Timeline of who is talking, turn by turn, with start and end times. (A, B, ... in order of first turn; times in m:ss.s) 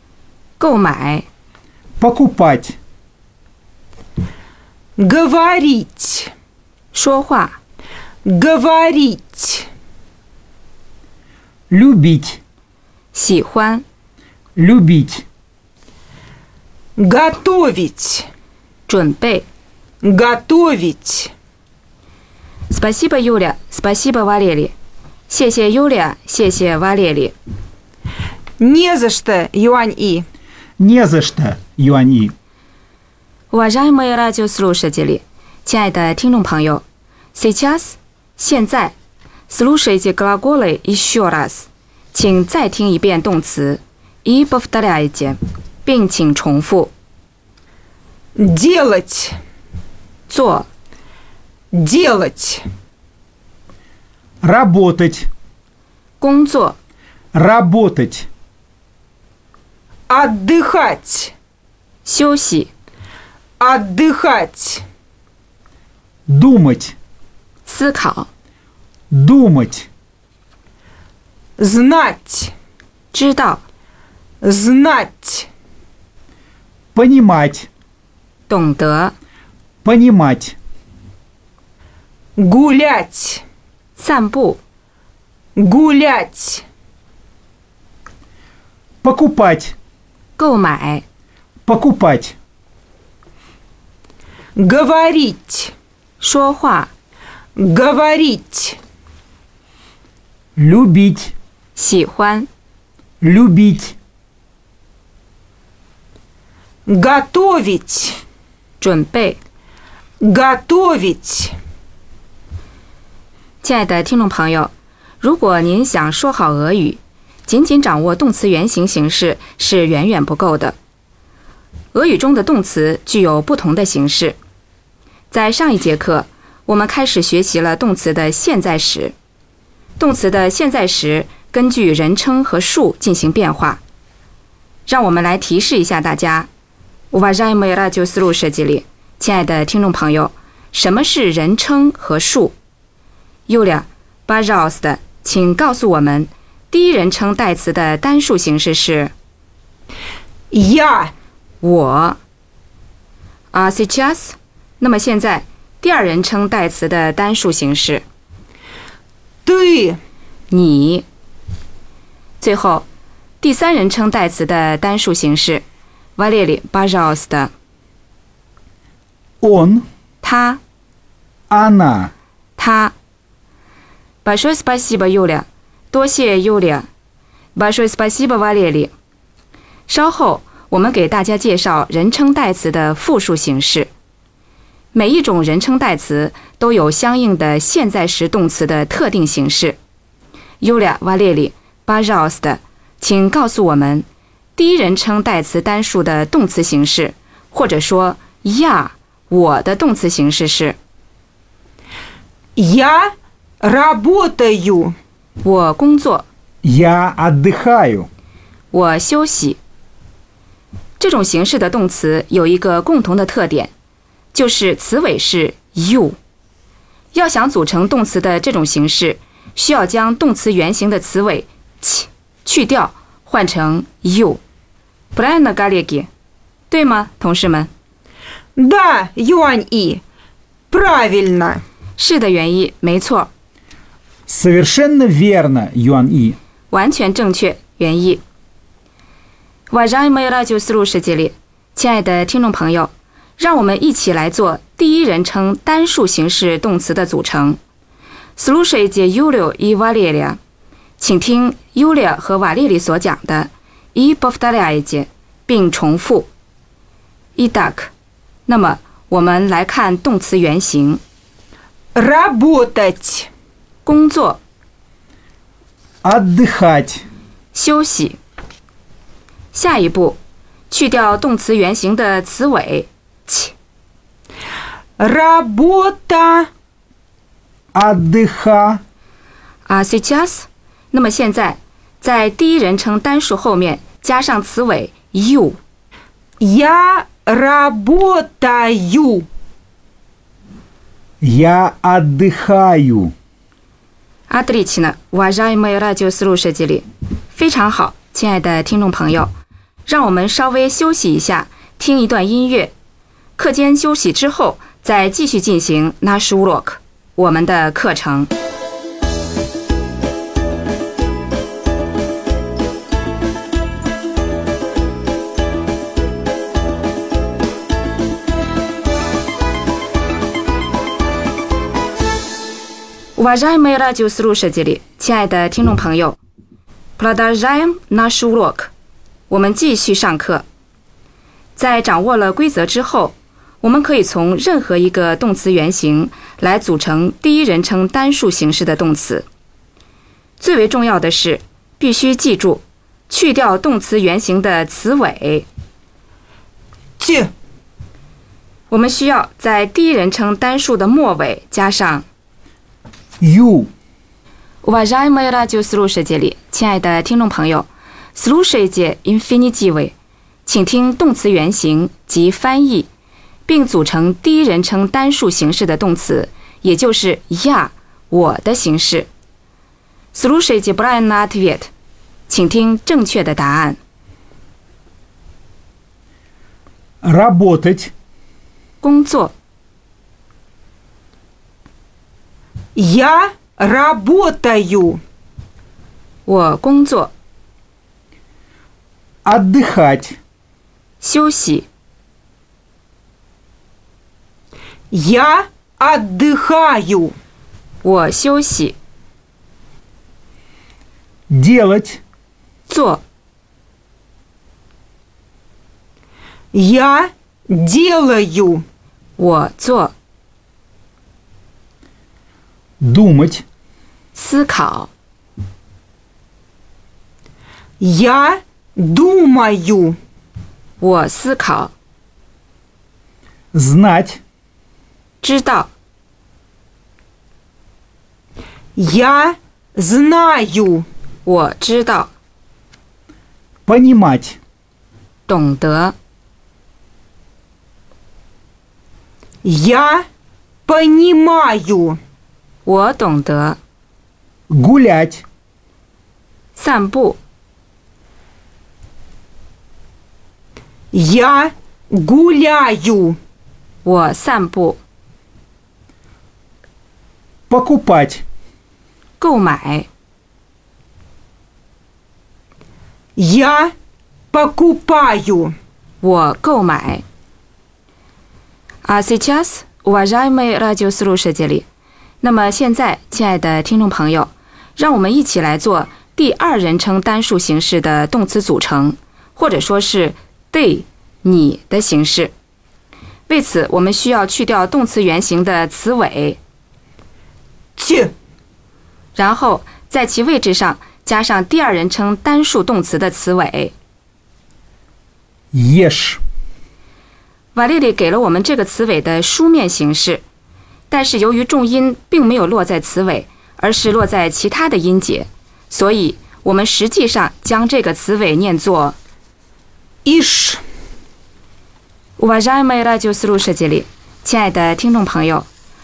0:00.6-0:01.3 A
0:02.0-0:02.8 B
0:05.0-0:06.3 C
0:06.9-0:07.6 A
0:08.3-0:09.7 C
0:11.7-0:12.4 B
0:13.1-0:13.8 A
0:14.6-0:15.2 B
0:17.0-0:18.3 C
0:18.9-0:19.5 A
0:20.0-0:21.3 C
0:22.7-0:24.7 A
0:25.3-0:27.4 A
0:28.6-0:30.3 C
0:30.8-0:32.3 B
0:33.5-0:36.8 A
0:37.4-0:38.9 A
0:39.5-0:46.9 A
0:48.4-0:49.4 C
0:50.3-0:50.7 A
0:51.7-0:52.6 C
0:54.4-0:55.3 B
0:56.2-0:56.8 A
0:57.3-0:58.3 B
1:00.1-1:01.3 C
1:02.0-1:02.7 A
1:03.6-1:04.8 C
1:06.3-1:07.0 B
1:07.7-1:08.3 A
1:09.1-1:09.9 B
1:11.6-1:12.5 C
1:13.1-1:13.6 A
1:14.4-1:15.5 C
1:17.0-1:17.7 B
1:18.5-1:19.2 A
1:19.8-1:20.6 B
1:22.4-1:23.4 C
1:24.0-1:24.6 A
1:25.6-1:26.6 C
1:29.0-1:29.8 B
1:30.4-1:31.0 A
1:31.7-1:32.4 B
1:34.6-1:35.7 C
1:36.2-1:36.9 A
1:37.6-1:38.8 C
1:40.6-1:41.3 B
1:41.8-1:42.5 A
1:43.2-1:44.0 B
1:46.9-1:48.2 C
1:48.8-1:49.4 A
1:50.2-1:51.6 C
1:53.6-2:00.8 A
2:01.9-2:04.4 A
2:05.3-2:09.2 A
2:10.0-2:13.8 A
2:14.9-2:16.5 A
2:17.1-2:22.5 A
2:23.5-2:29.1 A
2:30.5-2:31.1 C
2:31.6-2:32.2 A
2:33.5-2:38.0 A
2:39.5-2:40.0 C
2:40.5-2:41.1 A
2:42.4-2:42.9 A
2:43.4-2:45.6 A
2:46.2-2:47.5 A
2:49.4-2:49.9 B
2:50.2-2:50.6 A
2:51.5-2:52.1 B
2:52.6-2:52.9 A
2:54.2-2:56.9 A
2:57.6-2:58.9 A
2:59.9-3:03.9 A
3:04.9-3:09.8 A
3:10.6-3:20.8 A
3:22.6-3:24.9 C
3:25.4-3:26.3 A
3:26.6-3:28.1 B
3:28.7-3:29.6 A
3:31.0-3:33.7 A
3:34.3-3:36.2 A
3:37.1-3:44.4 A
3:45.1-3:46.1 A
3:46.7-3:47.7 A
3:48.6-3:50.0 C
3:50.7-3:51.6 C
3:52.0-3:53.3 A
3:54.3-3:56.4 B
3:56.7-3:58.2 A
3:59.7-4:07.6 A
4:08.4-4:10.4 A
4:11.0-4:16.3 A
4:17.4-4:17.9 A
4:18.5-4:21.0 A
4:22.0-4:23.3 C
4:23.8-4:24.4 A
4:26.0-4:27.0 B
4:27.5-4:28.2 A
4:29.5-4:30.2 A
4:30.7-4:33.5 A
4:35.0-4:36.5 C
4:37.7-4:38.8 B
4:39.7-4:45.6 A
4:46.4-4:49.3 C
4:51.2-4:53.1 B
4:54.3-4:59.3 A
4:59.9-5:02.7 A
5:03.4-5:08.3 A
5:23.2-5:26.2 A
5:27.0-5:28.7 A
5:29.3-5:30.4 A
5:31.6-5:39.3 A
5:40.4-5:45.5 A
5:47.0-5:47.3 C
5:48.7-5:52.0 A
5:53.2-5:53.7 B
5:54.6-6:00.0 A
6:00.5-6:02.9 A
6:03.5-6:09.1 A
6:10.1-6:11.7 A
6:12.3-6:13.8 A
6:17.0-6:17.9 B
6:18.8-6:19.3 A
6:22.8-6:25.0 C
6:26.3-6:27.1 A
6:29.2-6:30.2 B
6:31.0-6:31.7 A
6:34.9-6:37.2 C
6:37.8-6:38.8 A
6:41.3-6:42.0 B
6:42.7-6:43.0 A
6:46.5-6:48.6 C
6:49.2-6:50.0 A
6:52.8-6:53.4 B
6:54.2-6:54.9 A
6:57.8-7:00.0 C
7:00.8-7:01.7 A
7:03.5-7:04.2 B
7:05.2-7:05.7 A
7:08.8-7:10.9 C
7:11.2-7:12.1 A
7:13.7-7:14.4 B
7:15.3-7:16.0 A
7:19.4-7:20.1 C
7:20.7-7:22.0 C
7:22.6-7:23.6 A
7:24.5-7:25.2 B
7:26.6-7:27.2 A
7:30.9-7:33.2 C
7:33.8-7:34.8 A
7:37.5-7:38.2 B
7:39.2-7:39.9 A
7:43.2-7:43.7 C
7:44.3-7:45.5 C
7:46.0-7:47.0 A
7:48.8-7:51.7 A
7:52.2-8:02.3 A
8:03.3-8:06.4 A
8:07.8-8:08.1 C
8:09.2-8:13.7 A
8:15.5-8:16.2 B
8:17.5-8:20.2 A
8:20.9-8:29.0 A
8:30.0-8:30.6 C
8:32.2-8:35.5 A